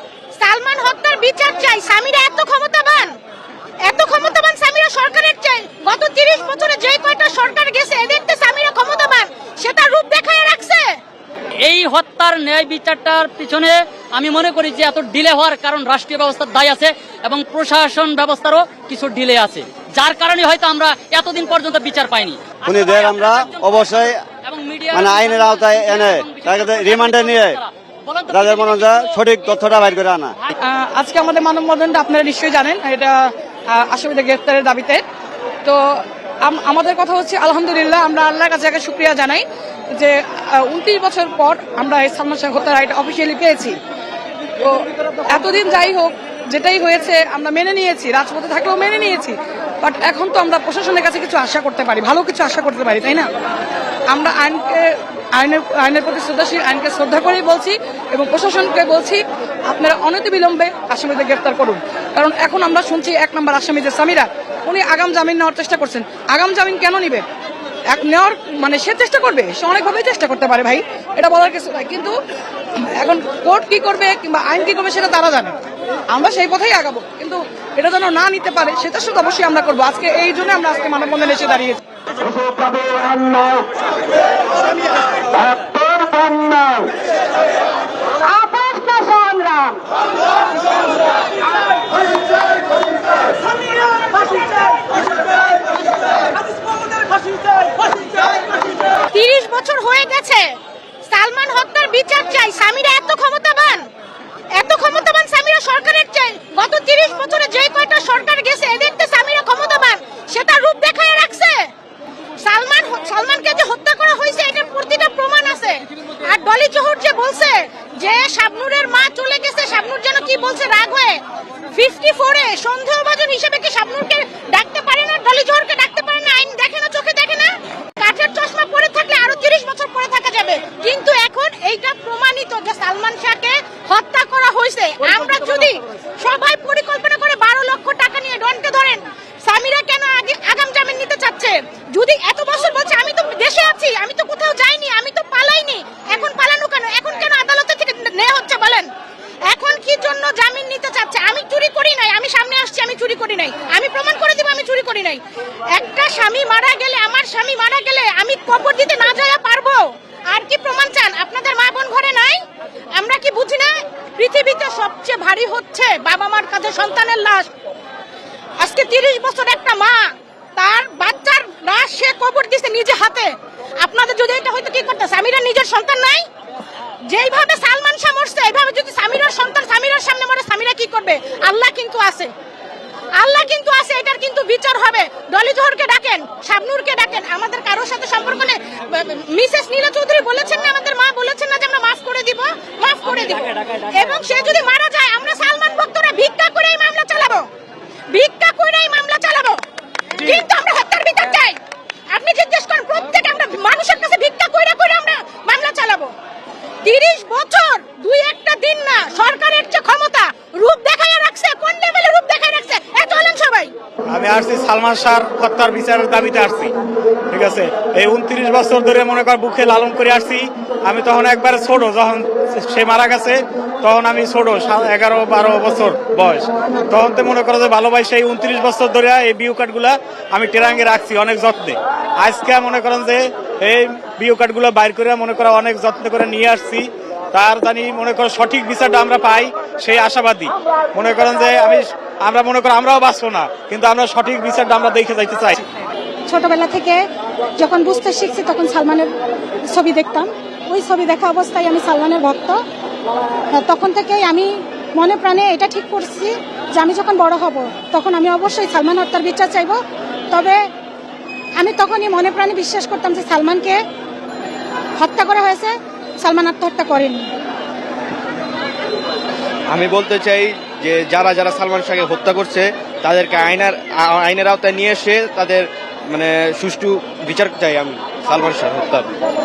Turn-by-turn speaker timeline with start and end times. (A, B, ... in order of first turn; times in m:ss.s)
0:00.4-0:03.2 A
0:03.8-0:11.0 A
0:11.6-0:29.5 B
0:22.6-0:24.2 C
0:24.9-0:27.6 C
0:28.3-0:30.4 C
0:30.6-0:35.0 D
0:35.6-0:43.8 D
0:44.6-0:53.3 D
0:54.1-1:07.3 D
1:07.9-1:12.2 D
1:13.0-1:15.6 D
1:16.1-1:21.8 D
1:39.1-1:40.5 A
1:41.1-1:43.9 A
1:44.5-1:51.7 A
1:52.4-2:01.2 A
2:01.7-2:28.9 A
2:29.5-2:35.2 A
2:35.7-2:47.5 A
2:48.6-2:56.3 A
2:57.1-3:02.3 A
3:03.2-3:17.5 A
3:18.1-3:19.6 A
3:20.2-3:21.6 A
3:22.1-3:26.1 A
3:26.8-3:33.7 A
3:34.1-3:36.7 E
3:37.3-4:05.6 E
4:06.3-4:07.0 F
4:07.6-4:09.1 F
4:08.4-4:08.9 A
4:09.7-4:12.6 F
4:11.9-4:12.5 A
4:13.5-4:14.5 F
4:13.8-4:19.8 A
4:15.0-4:16.2 F
4:16.9-4:17.4 F
4:18.0-4:19.5 F
4:20.3-4:20.6 A
4:21.6-4:23.8 A
4:21.7-4:23.5 F
4:25.0-4:25.7 F
4:25.0-4:25.7 A
4:26.2-4:27.2 A
4:29.7-4:39.1 G